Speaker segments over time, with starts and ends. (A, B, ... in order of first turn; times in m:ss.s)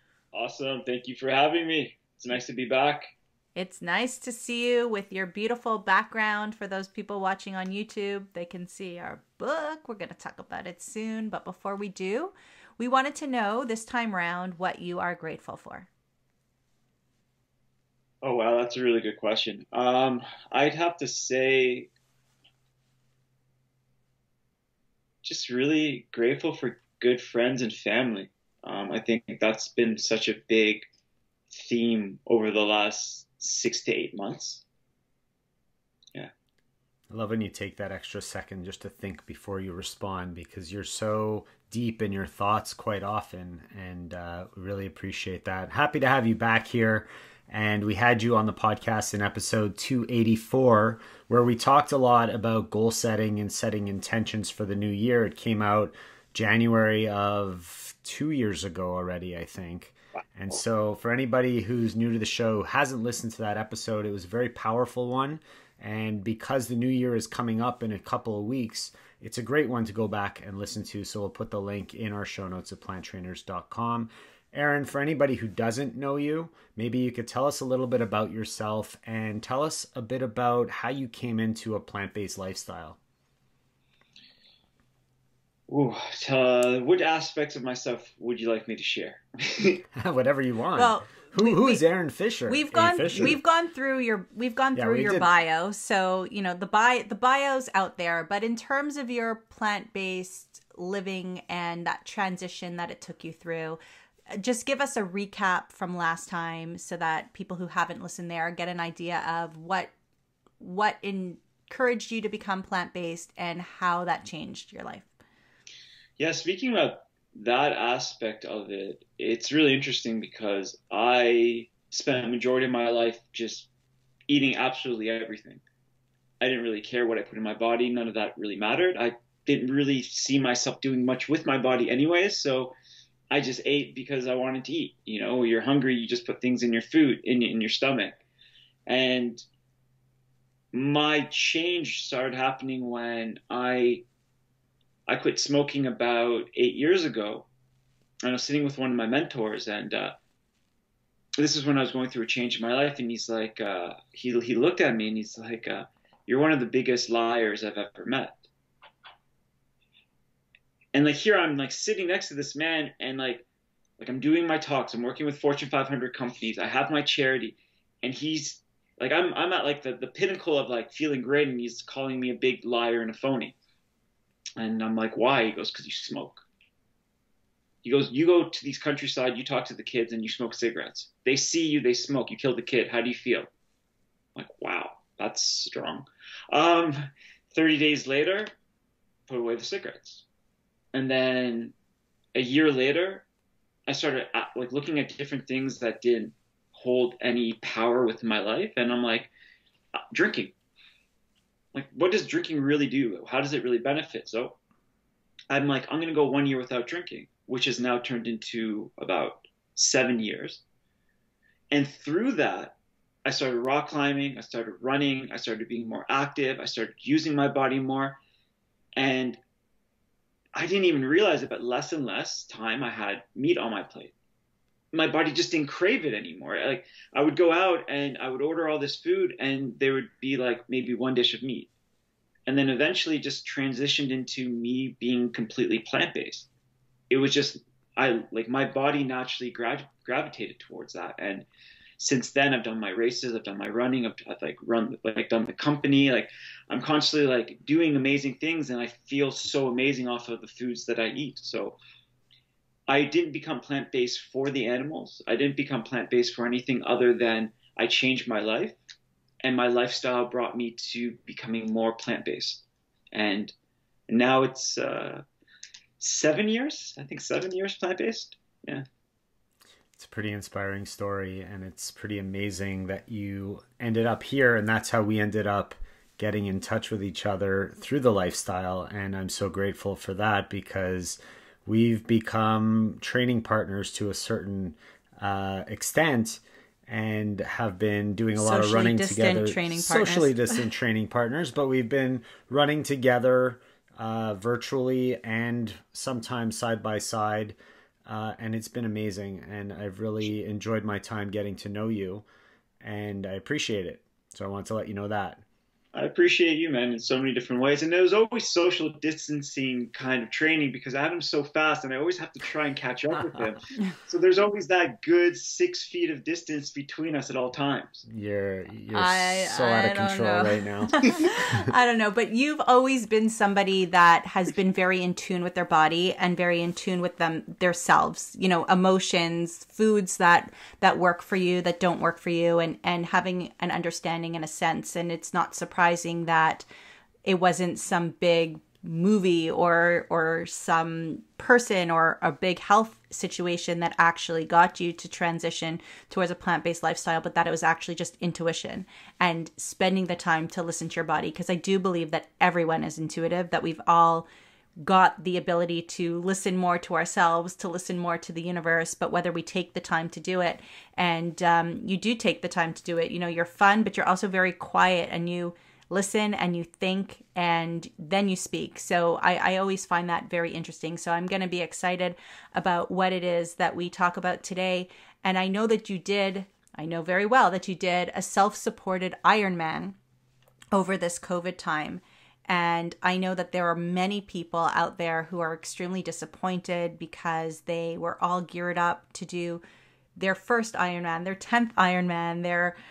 0:00.3-0:03.1 A
0:03.5-0:15.9 B
0:18.2-0:21.9 A
0:25.2-0:30.9 A
0:31.5-0:34.6 A
0:37.1-1:23.0 C
1:25.7-1:29.8 A
1:29.9-1:33.4 C
1:30.8-1:31.8 B
1:32.5-1:43.8 B
1:34.7-1:35.3 C
1:44.3-1:49.9 B
1:50.6-1:55.1 B
1:56.2-2:03.7 A
2:04.3-2:05.6 A
2:06.4-2:12.8 A
2:13.3-2:18.2 A
2:18.9-2:19.4 A
2:20.7-2:24.0 A
2:25.1-2:27.5 A
2:28.2-2:30.2 A
2:31.4-2:38.4 A
2:40.9-2:43.4 A
2:44.0-2:53.5 A
2:54.6-2:56.4 A
2:57.8-3:03.5 A
3:04.3-3:08.5 A
3:09.3-3:10.2 A
3:10.9-3:11.7 A
3:12.3-3:13.2 A
3:13.9-3:19.3 A
3:20.1-3:20.5 A
3:21.7-3:24.6 A
3:25.5-3:30.6 A
3:31.7-3:38.2 A
3:38.9-3:39.4 A
3:40.5-3:44.1 A
3:44.9-3:51.7 A
3:52.5-3:56.5 A
3:57.1-4:01.5 A
4:02.0-4:11.8 A
4:12.9-4:18.8 A
4:19.4-4:23.5 A
4:24.1-4:25.2 A
4:26.0-4:28.8 A
4:30.0-5:02.2 C
4:48.4-4:50.6 B
5:02.8-5:05.4 C
5:05.9-5:18.0 A
5:18.1-5:21.6 C
5:18.9-5:36.6 B
5:37.2-5:54.3 B
5:54.8-6:20.0 B
6:20.7-6:29.6 B
6:30.2-6:32.8 B